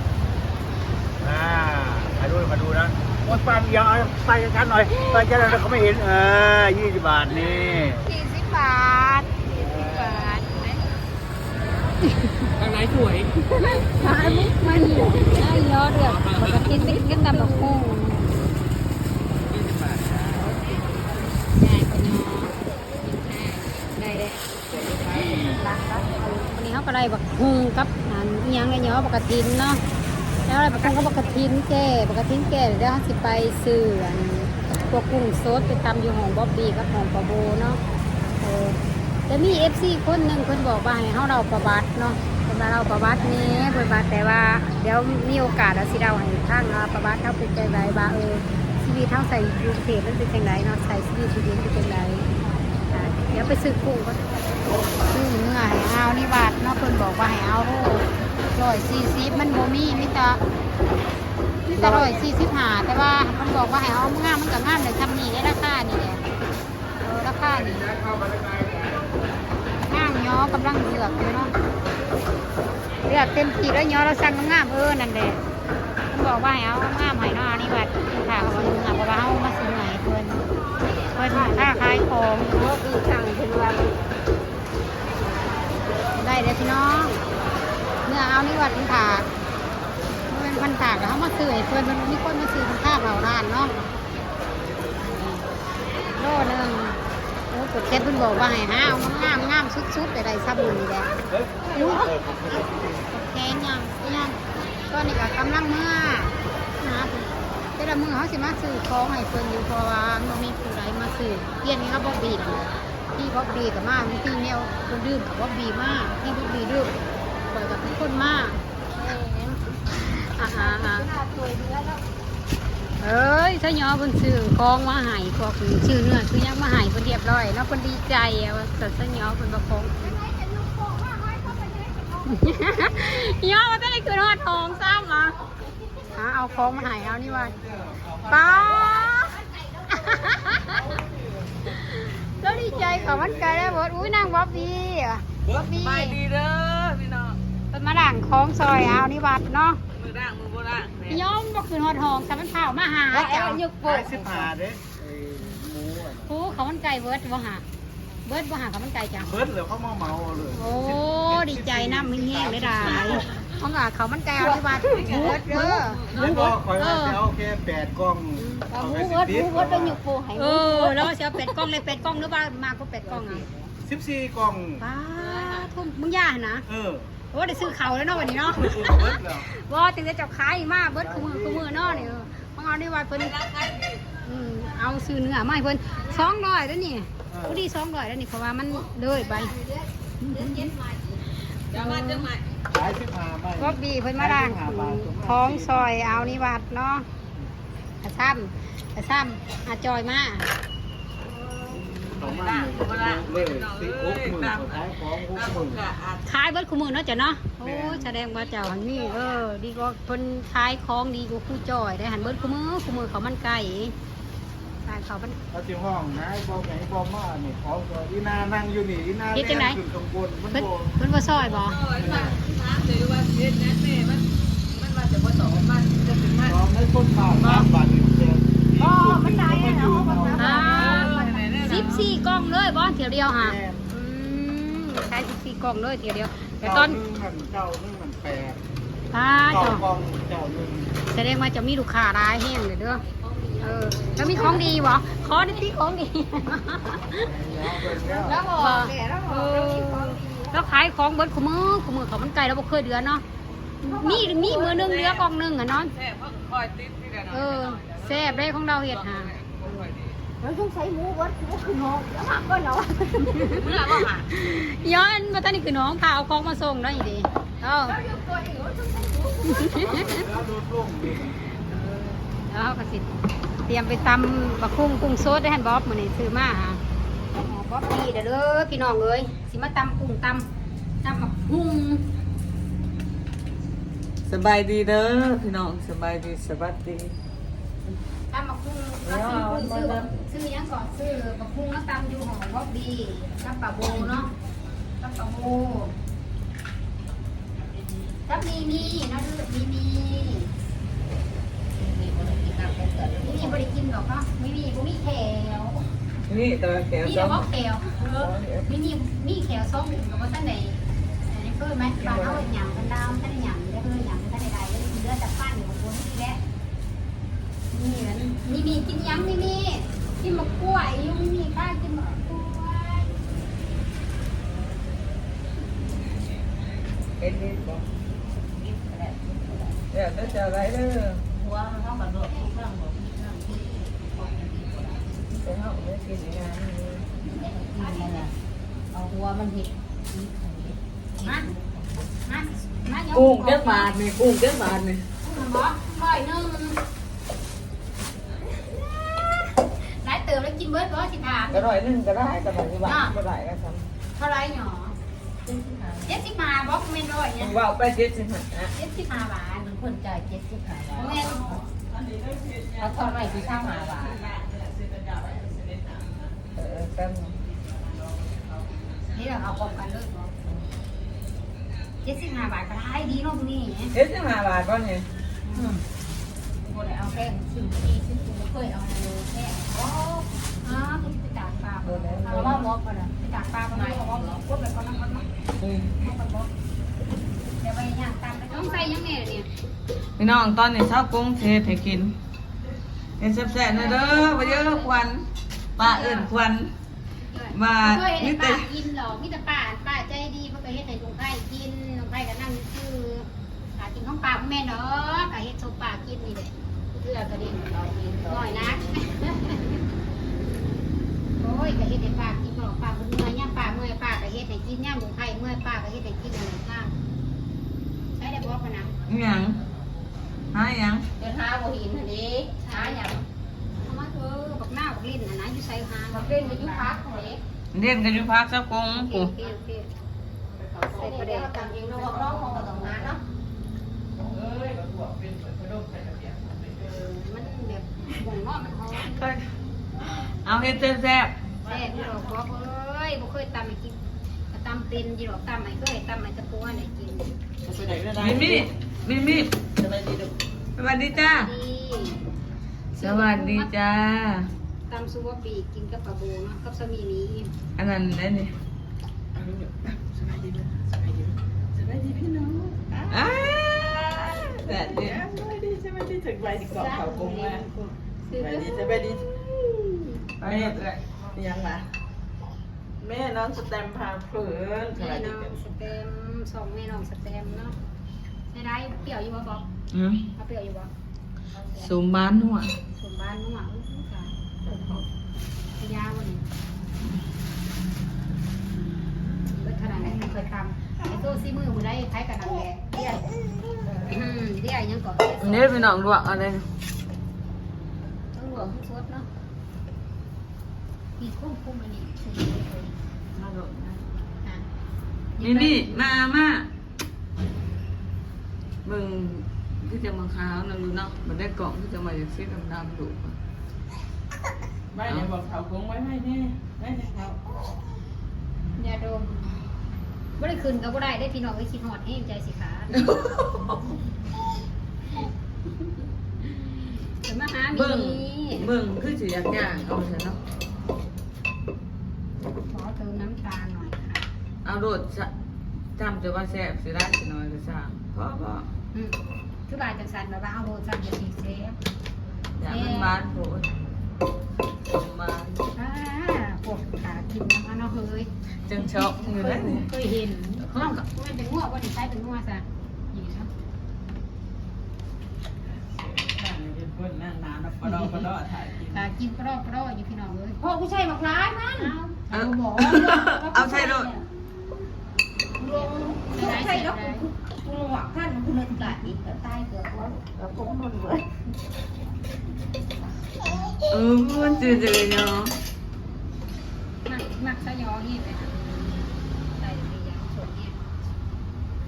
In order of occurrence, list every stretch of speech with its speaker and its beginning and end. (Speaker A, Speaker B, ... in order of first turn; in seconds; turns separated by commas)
Speaker A: 1.2-8.1, Speaker B: 4.9-5.6, Speaker B: 7.3-10.8, Speaker A: 9.5-10.2, Speaker B: 12.0-12.5, Speaker C: 12.6-13.7, Speaker B: 13.6-18.2, Speaker C: 14.9-15.3, Speaker C: 15.9-17.0, Speaker D: 16.3-17.6, Speaker C: 19.3-20.9, Speaker B: 21.6-22.5, Speaker B: 23.9-24.4, Speaker C: 24.7-25.6, Speaker E: 25.5-26.2, Speaker B: 26.1-29.8, Speaker B: 30.5-37.8, Speaker D: 30.7-31.3, Speaker B: 38.4-52.3, Speaker B: 52.9-54.2, Speaker B: 55.0-60.4, Speaker B: 61.7-66.2, Speaker B: 67.0-67.9, Speaker A: 67.5-69.2, Speaker B: 69.9-71.5, Speaker B: 73.0-75.4, Speaker B: 76.1-80.5, Speaker E: 78.3-78.9, Speaker E: 81.1-84.1, Speaker B: 81.1-82.6, Speaker B: 86.1-87.2, Speaker B: 88.1-89.3, Speaker B: 90.3-93.9, Speaker B: 96.2-101.1, Speaker A: 101.2-103.1, Speaker B: 101.7-102.2, Speaker B: 103.1-104.4, Speaker B: 104.9-116.9, Speaker B: 117.5-118.6, Speaker E: 118.9-119.7, Speaker B: 120.0-121.1, Speaker E: 120.5-122.0, Speaker B: 123.0-130.2, Speaker E: 130.2-132.8, Speaker B: 132.2-135.4, Speaker E: 134.8-136.0, Speaker B: 136.1-137.6, Speaker A: 136.2-139.0, Speaker B: 138.3-139.3, Speaker E: 138.6-140.7, Speaker B: 139.9-140.8, Speaker A: 140.1-144.6, Speaker B: 141.8-146.2, Speaker D: 145.5-147.4, Speaker B: 147.7-149.8, Speaker D: 149.9-151.2, Speaker B: 151.1-153.6, Speaker E: 153.3-154.2, Speaker A: 153.8-156.4, Speaker B: 156.2-157.6, Speaker B: 158.3-159.3, Speaker A: 159.2-163.3, Speaker B: 160.5-167.2, Speaker E: 164.4-165.1, Speaker D: 164.8-166.5, Speaker A: 166.1-170.0, Speaker B: 168.4-169.0, Speaker E: 168.8-171.1, Speaker B: 170.3-173.5, Speaker E: 173.0-173.7, Speaker A: 173.8-174.8, Speaker B: 174.8-176.7, Speaker D: 175.2-175.9, Speaker A: 176.7-177.1, Speaker B: 177.3-183.4, Speaker A: 178.3-179.5, Speaker A: 181.0-182.3, Speaker D: 183.2-184.2, Speaker B: 184.2-189.6, Speaker A: 187.3-187.7, Speaker B: 190.2-192.3, Speaker D: 191.7-192.6, Speaker A: 192.7-196.4, Speaker B: 193.6-197.1, Speaker B: 198.0-200.5, Speaker D: 201.2-206.2, Speaker A: 201.7-205.8, Speaker B: 206.2-213.9, Speaker A: 207.6-208.2, Speaker D: 208.5-209.3, Speaker B: 214.8-215.4, Speaker A: 215.5-221.0, Speaker B: 219.3-219.8, Speaker B: 220.5-221.8, Speaker D: 221.6-226.6, Speaker A: 221.7-222.5, Speaker A: 226.5-230.6, Speaker D: 227.4-227.7, Speaker E: 228.8-231.4, Speaker B: 230.4-237.0, Speaker D: 230.6-232.1, Speaker A: 233.4-233.8, Speaker A: 236.6-238.6, Speaker B: 239.1-239.9, Speaker A: 239.5-240.9, Speaker B: 241.1-243.0, Speaker E: 243.0-245.7, Speaker B: 243.6-247.3, Speaker A: 247.1-248.4, Speaker E: 247.9-250.7, Speaker B: 248.0-253.2, Speaker B: 253.8-255.9, Speaker E: 253.8-254.3, Speaker D: 254.2-255.3, Speaker D: 255.9-260.2, Speaker B: 257.3-259.8, Speaker E: 260.4-264.1, Speaker D: 263.4-264.3, Speaker B: 264.3-268.0, Speaker E: 267.9-270.0, Speaker B: 269.5-270.1, Speaker A: 269.7-271.4, Speaker B: 271.6-273.1, Speaker B: 273.7-276.8, Speaker B: 277.3-280.5, Speaker B: 281.0-282.0, Speaker D: 284.3-287.1, Speaker B: 288.3-294.3, Speaker D: 289.0-290.1, Speaker E: 293.9-294.1, Speaker B: 295.0-295.9, Speaker B: 298.3-300.5, Speaker E: 301.8-303.6, Speaker B: 303.2-305.9, Speaker D: 306.3-308.7, Speaker B: 307.0-316.4, Speaker D: 312.0-312.5, Speaker B: 317.7-323.1, Speaker D: 327.2-327.8, Speaker E: 328.4-329.9, Speaker D: 329.9-331.2, Speaker E: 331.3-335.1, Speaker D: 335.3-337.1, Speaker E: 337.2-338.3, Speaker B: 337.4-338.3, Speaker E: 338.9-341.9, Speaker B: 341.2-341.5, Speaker B: 342.3-343.9, Speaker D: 343.1-345.1, Speaker B: 345.2-346.8, Speaker B: 348.6-351.7, Speaker D: 351.5-353.9, Speaker B: 352.8-353.2, Speaker B: 354.1-355.0, Speaker E: 355.4-356.2, Speaker B: 356.1-357.6, Speaker D: 357.4-358.7, Speaker B: 358.7-359.7, Speaker E: 359.6-361.6, Speaker C: 360.9-366.4, Speaker B: 360.9-361.5, Speaker E: 362.8-364.2, Speaker D: 366.6-367.4, Speaker C: 367.4-369.7, Speaker B: 369.1-370.3, Speaker B: 372.0-374.0, Speaker D: 373.9-375.6, Speaker B: 375.5-375.8, Speaker E: 375.6-375.8, Speaker E: 376.6-381.0, Speaker B: 380.6-385.3, Speaker D: 381.8-382.6, Speaker E: 382.3-383.1, Speaker E: 383.7-384.4, Speaker D: 385.6-386.0, Speaker B: 386.0-386.5, Speaker B: 387.6-389.5, Speaker E: 388.6-388.9, Speaker D: 390.2-392.1, Speaker D: 393.2-395.2, Speaker B: 393.7-395.0, Speaker D: 395.8-396.7, Speaker B: 395.8-396.3, Speaker B: 397.2-407.6, Speaker D: 397.5-398.7, Speaker E: 407.2-409.1, Speaker B: 408.1-409.8, Speaker B: 411.4-416.9, Speaker B: 418.1-419.0, Speaker D: 419.1-419.6, Speaker D: 420.5-421.1, Speaker E: 421.2-423.3, Speaker B: 422.6-423.1, Speaker B: 423.8-426.9, Speaker E: 426.1-427.4, Speaker D: 427.7-429.3, Speaker B: 428.9-429.9, Speaker C: 430.6-431.1, Speaker E: 430.7-433.2, Speaker B: 430.8-433.1, Speaker C: 431.9-432.4, Speaker C: 434.1-437.1, Speaker B: 436.9-439.3, Speaker D: 439.0-439.5, Speaker D: 440.2-441.4, Speaker C: 441.6-442.5, Speaker B: 441.6-444.0, Speaker B: 444.5-447.3, Speaker C: 447.6-450.4, Speaker D: 448.1-449.5, Speaker D: 450.8-451.5, Speaker B: 451.1-452.2, Speaker D: 453.0-454.5, Speaker B: 453.0-453.7, Speaker B: 454.9-457.5, Speaker D: 457.8-458.5, Speaker C: 459.4-463.4, Speaker D: 463.1-465.2, Speaker C: 464.6-467.7, Speaker B: 466.8-468.8, Speaker E: 466.9-467.6, Speaker C: 468.3-469.9, Speaker D: 470.4-471.0, Speaker C: 470.4-471.9, Speaker C: 473.0-475.6, Speaker B: 475.0-477.8, Speaker B: 478.5-479.7, Speaker D: 479.9-480.2, Speaker B: 480.4-480.9, Speaker D: 481.8-482.8, Speaker B: 482.9-484.9, Speaker B: 485.8-486.4, Speaker B: 489.5-493.2, Speaker E: 490.0-490.3, Speaker D: 493.9-494.2, Speaker B: 494.0-496.0, Speaker D: 495.4-496.7, Speaker B: 498.3-499.3, Speaker B: 501.2-503.0, Speaker D: 503.4-504.1, Speaker B: 505.4-506.0, Speaker D: 505.4-506.7, Speaker D: 508.9-513.4, Speaker C: 514.9-517.4, Speaker B: 518.8-519.5, Speaker B: 520.4-523.0, Speaker D: 522.9-523.9, Speaker B: 527.2-528.7, Speaker D: 527.7-530.4, Speaker B: 532.7-534.2, Speaker D: 534.6-535.3, Speaker D: 536.0-538.7, Speaker B: 539.7-541.8, Speaker D: 542.6-543.7, Speaker B: 542.7-543.2, Speaker D: 544.9-545.6, Speaker B: 545.7-553.5, Speaker D: 548.6-549.9, Speaker C: 555.6-559.1, Speaker B: 558.9-560.6, Speaker E: 560.6-564.2, Speaker B: 561.8-562.2, Speaker D: 562.3-564.1, Speaker E: 565.6-571.3, Speaker B: 565.7-567.3, Speaker E: 573.3-573.8, Speaker D: 573.9-575.6, Speaker B: 577.0-580.9